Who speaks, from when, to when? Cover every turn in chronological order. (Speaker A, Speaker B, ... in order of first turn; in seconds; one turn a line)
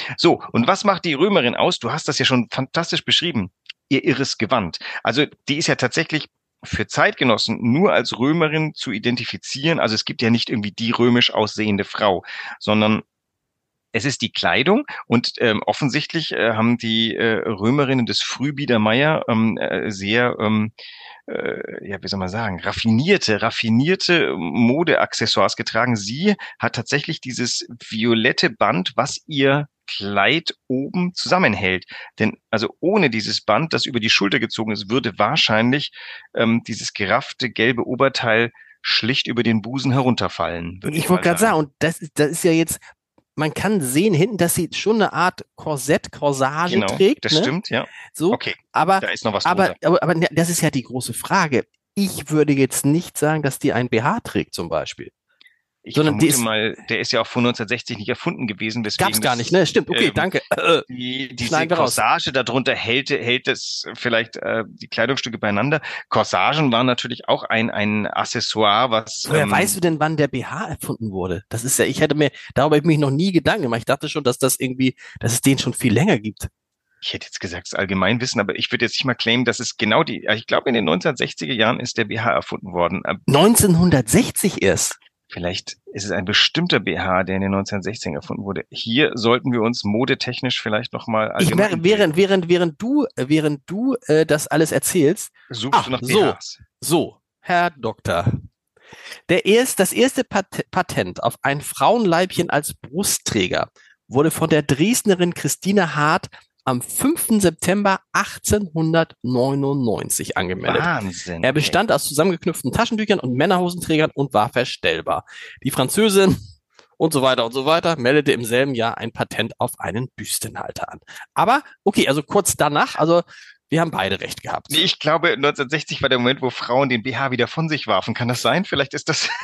Speaker A: 0.1-13.0
Speaker A: 13.9-20.7
Speaker A: 21.3-41.5
Speaker B: 40.9-42.8
Speaker B: 43.4-47.5
Speaker A: 46.7-49.8
Speaker B: 48.1-55.1
Speaker A: 55.9-60.3
Speaker B: 56.0-56.4
Speaker B: 59.0-60.9
Speaker A: 60.9-69.8
Speaker B: 61.4-62.0
Speaker B: 69.3-76.5
Speaker A: 77.0-83.2
Speaker B: 83.3-85.0
Speaker A: 85.3-92.1
Speaker B: 91.4-98.4
Speaker A: 95.5-96.6
Speaker B: 99.3-110.9
Speaker A: 110.6-111.8
Speaker B: 111.4-116.4
Speaker B: 117.0-124.9
Speaker A: 124.7-129.3